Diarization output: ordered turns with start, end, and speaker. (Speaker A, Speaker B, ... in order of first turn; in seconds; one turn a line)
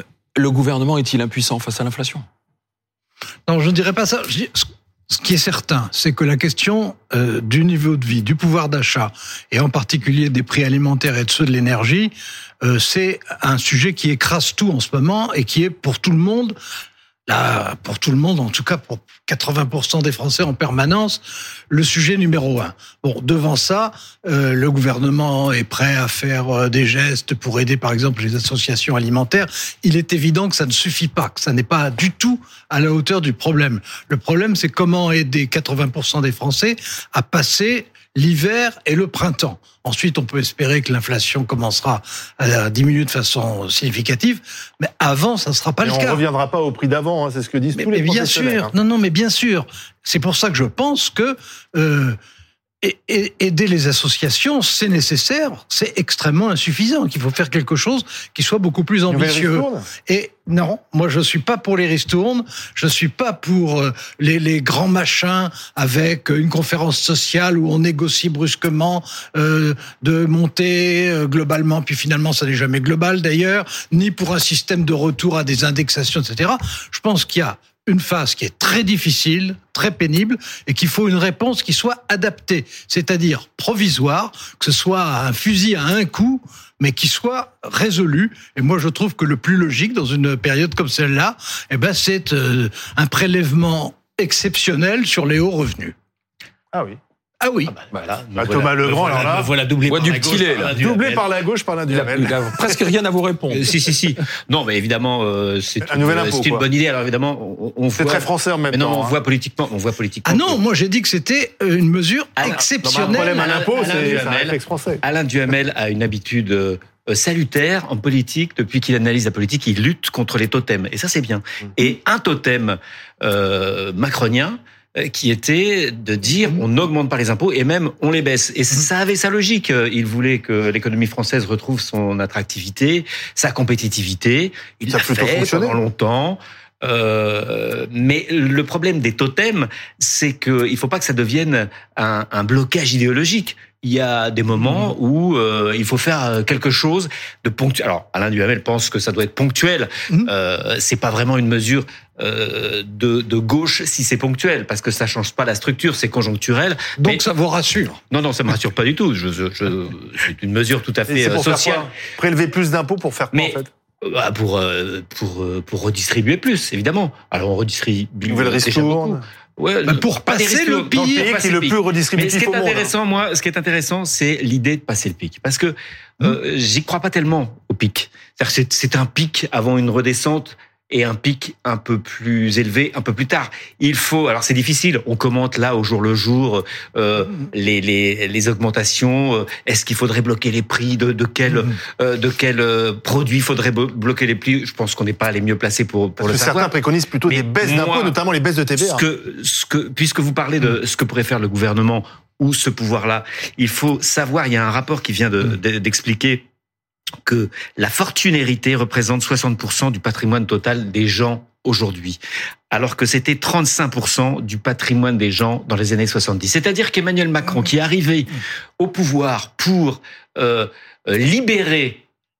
Speaker A: 0.3-2.2
Speaker B: 3.5-16.5
Speaker B: 17.3-46.2
Speaker C: 45.8-48.7
Speaker B: 47.7-52.2
Speaker B: 52.8-95.9
Speaker C: 59.1-59.9
Speaker C: 96.7-97.0
Speaker B: 97.4-97.7
Speaker D: 97.7-101.3
Speaker C: 98.4-99.5
Speaker A: 99.9-100.7
Speaker C: 100.6-102.8
Speaker A: 101.9-103.7
Speaker D: 103.5-110.6
Speaker C: 105.8-106.7
Speaker C: 108.0-109.2
Speaker B: 110.2-113.5
Speaker D: 112.4-157.2
Speaker C: 112.7-115.0
Speaker C: 134.9-135.8
Speaker B: 157.0-158.0
Speaker D: 158.1-161.9
Speaker C: 161.1-163.7
Speaker D: 163.3-196.7
Speaker C: 168.3-169.2
Speaker B: 169.8-171.3
Speaker C: 170.9-172.9
Speaker C: 196.2-199.0
Speaker D: 197.2-198.2
Speaker D: 198.8-206.4
Speaker D: 207.2-212.2
Speaker D: 212.7-222.0